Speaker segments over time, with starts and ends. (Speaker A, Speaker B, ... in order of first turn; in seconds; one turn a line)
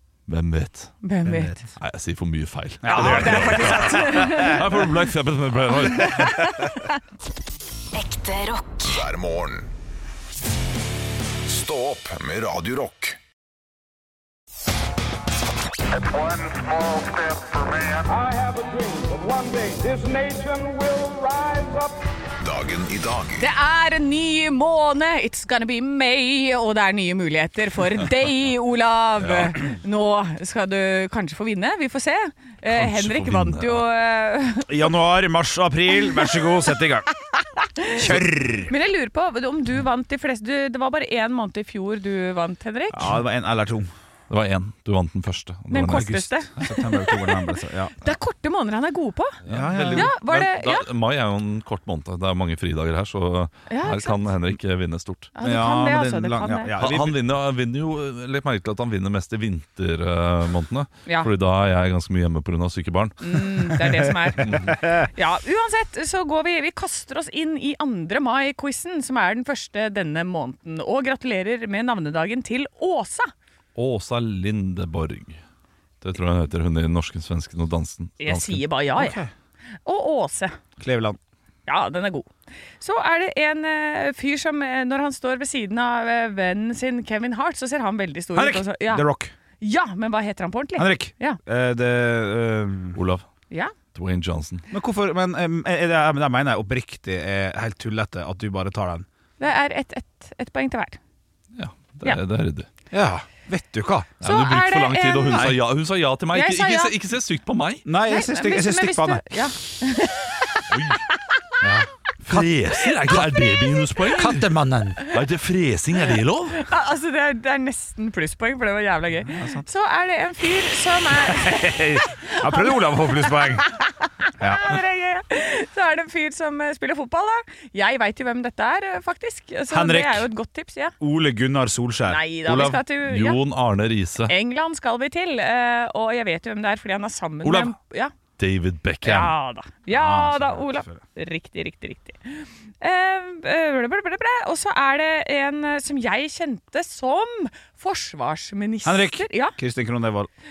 Speaker A: 0.3-1.0
Speaker B: 1.0-1.6
Speaker C: 1.2-1.6
Speaker A: 1.8-6.6
Speaker C: 2.8-4.8
Speaker B: 2.9-4.8
Speaker B: 5.9-7.0
Speaker D: 7.9-9.7
Speaker D: 11.4-13.2
Speaker E: 15.9-22.0
Speaker D: 22.4-23.4
Speaker B: 23.4-34.9
Speaker A: 29.2-29.6
Speaker A: 32.6-33.8
Speaker C: 34.7-37.1
Speaker B: 37.3-43.2
Speaker C: 37.9-38.7
Speaker C: 42.9-43.9
Speaker A: 44.3-46.7
Speaker B: 45.7-49.4
Speaker C: 45.9-47.9
Speaker A: 49.4-55.3
Speaker C: 49.5-50.1
Speaker B: 49.9-50.9
Speaker B: 53.7-54.3
Speaker B: 55.3-56.7
Speaker C: 55.4-57.2
Speaker A: 56.8-63.7
Speaker B: 63.2-73.3
Speaker C: 64.3-65.1
Speaker A: 64.4-64.7
Speaker A: 73.7-75.4
Speaker A: 76.0-78.7
Speaker B: 78.2-79.2
Speaker C: 79.0-79.3
Speaker B: 79.8-80.6
Speaker C: 80.8-81.2
Speaker B: 81.7-89.1
Speaker C: 88.3-89.3
Speaker B: 89.6-91.4
Speaker C: 90.8-93.0
Speaker A: 92.9-93.2
Speaker A: 93.9-94.6
Speaker C: 94.7-99.0
Speaker B: 99.4-101.0
Speaker A: 101.5-102.7
Speaker C: 102.9-104.1
Speaker A: 104.2-107.8
Speaker B: 104.2-105.6
Speaker C: 105.3-105.6
Speaker B: 106.3-106.9
Speaker C: 107.8-109.4
Speaker B: 108.0-111.4
Speaker A: 110.7-111.0
Speaker C: 111.6-113.4
Speaker A: 112.2-114.5
Speaker C: 114.0-115.0
Speaker A: 115.0-116.7
Speaker B: 116.5-130.9
Speaker C: 119.3-119.6
Speaker C: 121.2-123.7
Speaker C: 124.4-124.7
Speaker C: 129.7-130.3
Speaker C: 131.0-132.2
Speaker B: 132.1-133.4
Speaker A: 132.4-134.3
Speaker B: 134.3-138.1
Speaker A: 137.4-137.7
Speaker A: 138.4-139.3
Speaker B: 139.0-149.6
Speaker C: 139.9-141.0
Speaker C: 148.8-150.3